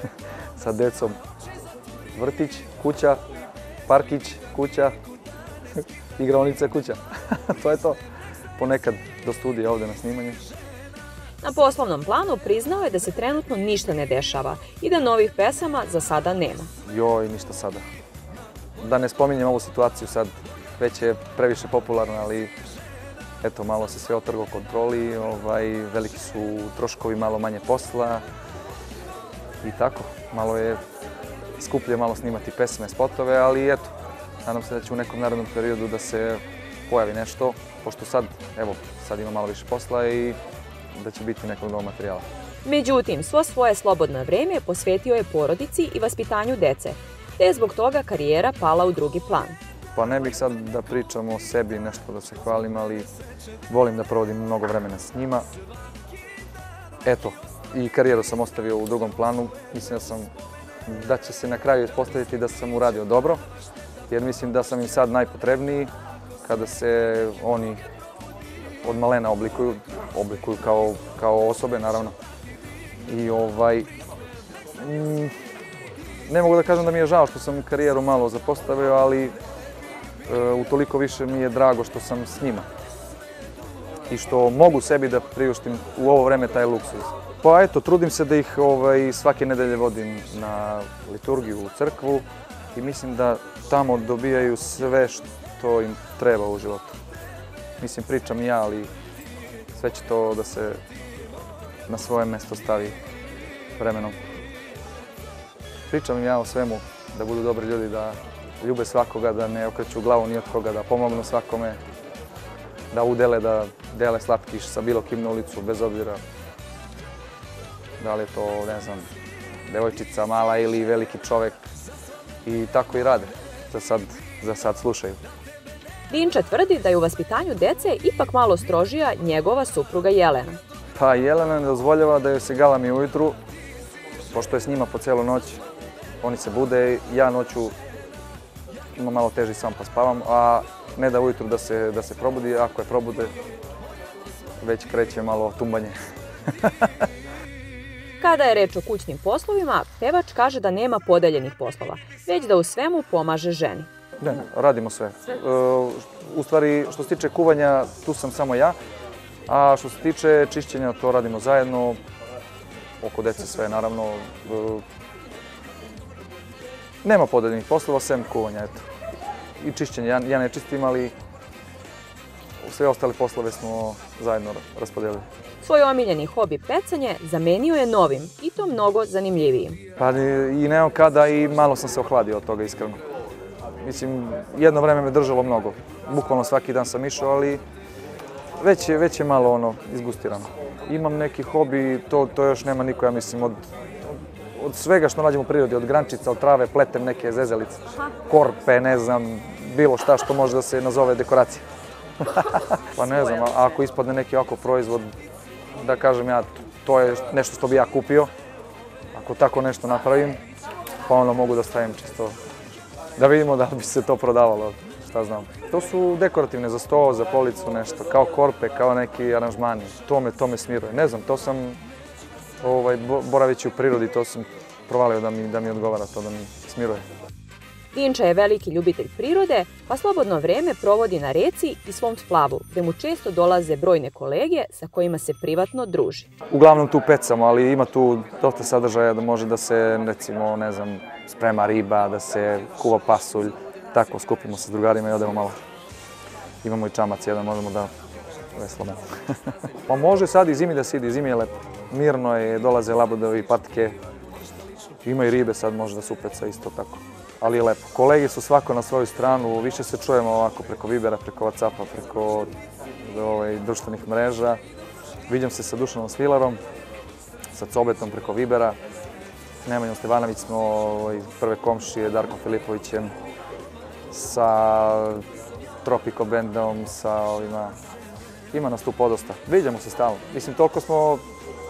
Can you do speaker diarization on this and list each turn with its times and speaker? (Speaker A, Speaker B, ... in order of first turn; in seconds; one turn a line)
Speaker A: 0.6-1.2
Speaker A: 2.1-3.2
Speaker A: 3.9-4.9
Speaker A: 5.8-8.0
Speaker A: 8.6-10.4
Speaker B: 11.4-16.7
Speaker A: 16.8-17.9
Speaker A: 18.8-22.5
Speaker A: 23.4-28.2
Speaker A: 29.6-30.8
Speaker A: 31.6-33.9
Speaker A: 34.4-40.4
Speaker A: 40.9-42.2
Speaker B: 42.6-49.6
Speaker A: 49.9-53.1
Speaker A: 53.7-55.5
Speaker A: 57.0-60.3
Speaker A: 60.8-63.4
Speaker A: 64.1-65.9
Speaker A: 66.4-67.8
Speaker A: 68.8-72.1
Speaker A: 73.0-73.9
Speaker A: 74.8-75.3
Speaker A: 76.2-79.3
Speaker A: 80.2-82.7
Speaker A: 84.1-97.0
Speaker A: 97.8-98.9
Speaker A: 99.7-100.8
Speaker A: 101.9-103.0
Speaker A: 103.8-104.2
Speaker A: 105.9-111.8
Speaker A: 112.9-116.2
Speaker A: 118.0-119.1
Speaker A: 119.7-121.6
Speaker A: 122.4-125.2
Speaker B: 126.1-130.6
Speaker A: 130.9-133.4
Speaker A: 134.3-135.6
Speaker A: 136.2-137.7
Speaker A: 138.9-143.3
Speaker A: 144.6-145.9
Speaker A: 146.5-147.1
Speaker B: 148.2-153.9
Speaker A: 154.2-158.8
Speaker A: 159.5-162.0
Speaker A: 163.0-164.8
Speaker A: 167.0-168.8
Speaker A: 169.6-171.1
Speaker A: 172.6-175.2
Speaker B: 175.6-179.8
Speaker A: 180.0-183.0
Speaker A: 183.8-187.6
Speaker A: 188.6-201.7
Speaker A: 202.2-205.1
Speaker A: 205.8-208.3
Speaker A: 209.1-210.4
Speaker A: 211.1-212.4
Speaker A: 213.2-221.8
Speaker A: 222.6-227.0
Speaker B: 227.9-236.3
Speaker A: 236.5-245.6
Speaker A: 246.6-247.9
Speaker A: 248.5-254.0
Speaker A: 255.0-262.5
Speaker A: 263.0-264.6
Speaker A: 265.3-266.6
Speaker A: 267.5-268.8
Speaker A: 269.6-273.1
Speaker A: 274.1-275.2
Speaker A: 275.8-277.8
Speaker A: 278.5-281.2